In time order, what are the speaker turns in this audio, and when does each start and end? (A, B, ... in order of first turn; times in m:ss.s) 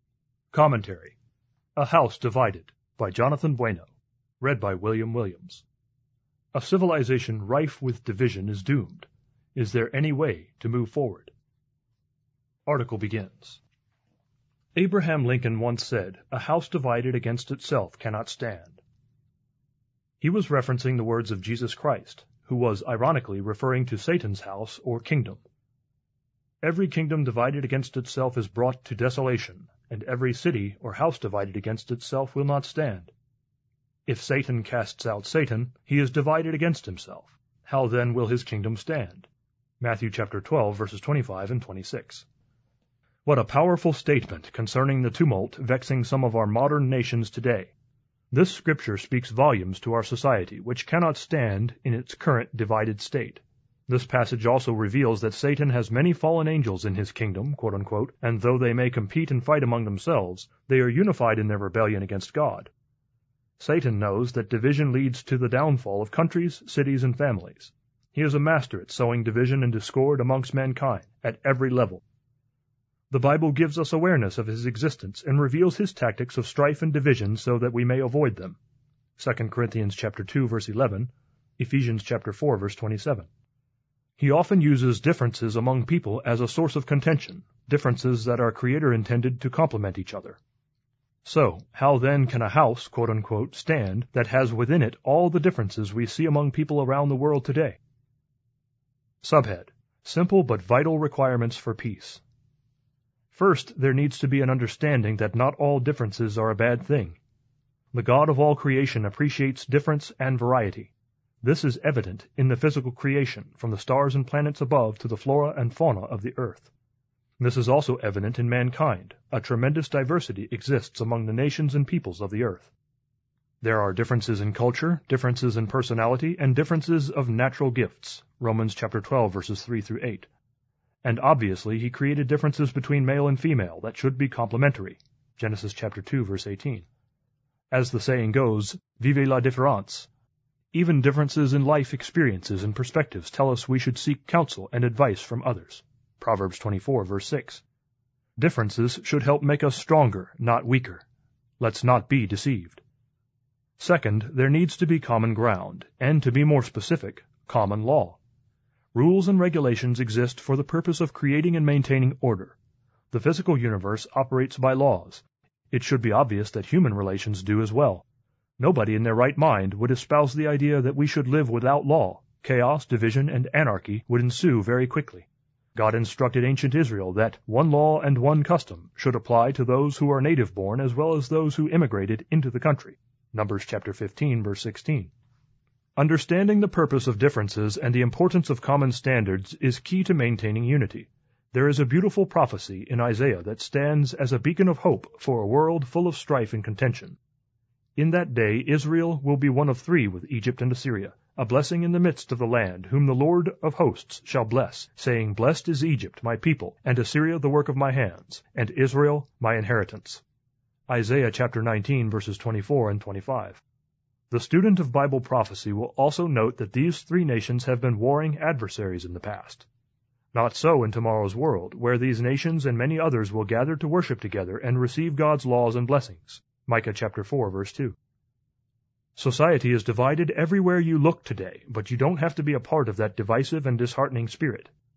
0:00.5-0:01.2 A
0:01.8-0:05.6 A
0:06.5-0:11.3 A
0:12.7-0:13.6 A
0:14.7-0:18.8 A
0:20.2-0:25.4 A
0:26.6-0:33.1 A
0:34.1-0:39.3 A
0:39.8-0:42.2 A
0:43.2-0:47.7 A
0:48.3-1:02.7 A
1:03.6-1:12.0 A
1:13.1-1:18.6 A
1:19.2-1:23.3 A
1:24.2-1:30.4 A
1:31.2-1:37.8 A
1:39.2-1:42.2 A
1:43.3-1:47.2 A
1:47.9-1:56.7 A
1:57.4-2:02.7 A
2:03.6-2:10.3 A
2:11.0-2:16.8 A
2:17.7-2:20.1 A
2:20.7-2:27.6 A
2:28.4-2:31.0 A
2:31.6-2:32.8 A
2:33.8-2:38.2 A
2:38.9-2:42.6 A
2:43.1-2:48.0 A
2:48.6-3:05.1 A
3:06.0-3:17.2 A
3:18.0-3:30.2 A
3:30.9-3:33.6 A
3:34.3-3:39.6 A
3:40.3-3:48.0 A
3:49.2-3:54.7 A